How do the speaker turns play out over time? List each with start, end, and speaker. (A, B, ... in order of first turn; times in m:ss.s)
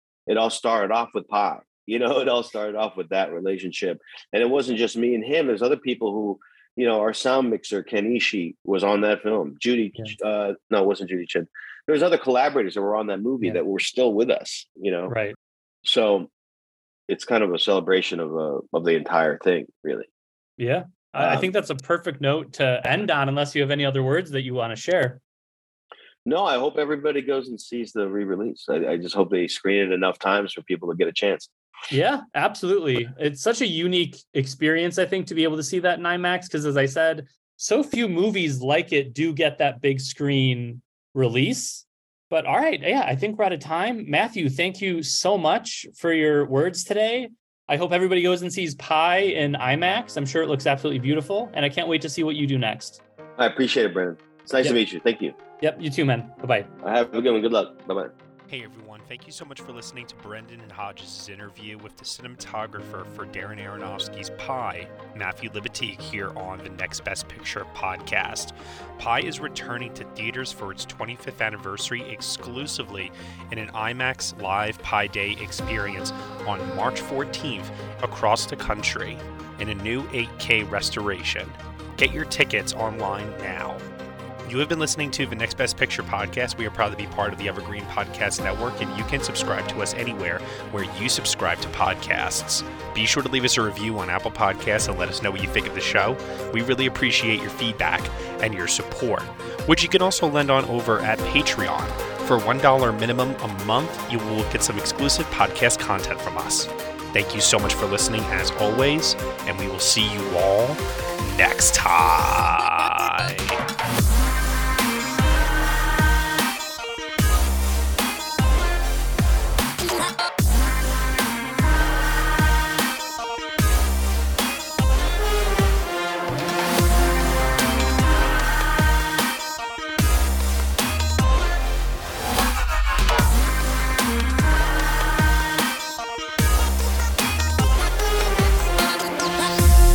0:00.3-0:15.2 A
0:15.1-0:15.4 B
0:15.8-0:16.3 A
0:17.1-0:20.1 A
0:20.6-0:25.2 B
0:21.2-0:21.5 A
0:26.3-0:31.5 A
0:31.9-0:53.0 B
0:53.4-0:55.4 A
0:55.6-0:56.7 B
0:56.8-0:58.1 A
0:58.5-1:23.8 C
1:24.4-1:53.6 C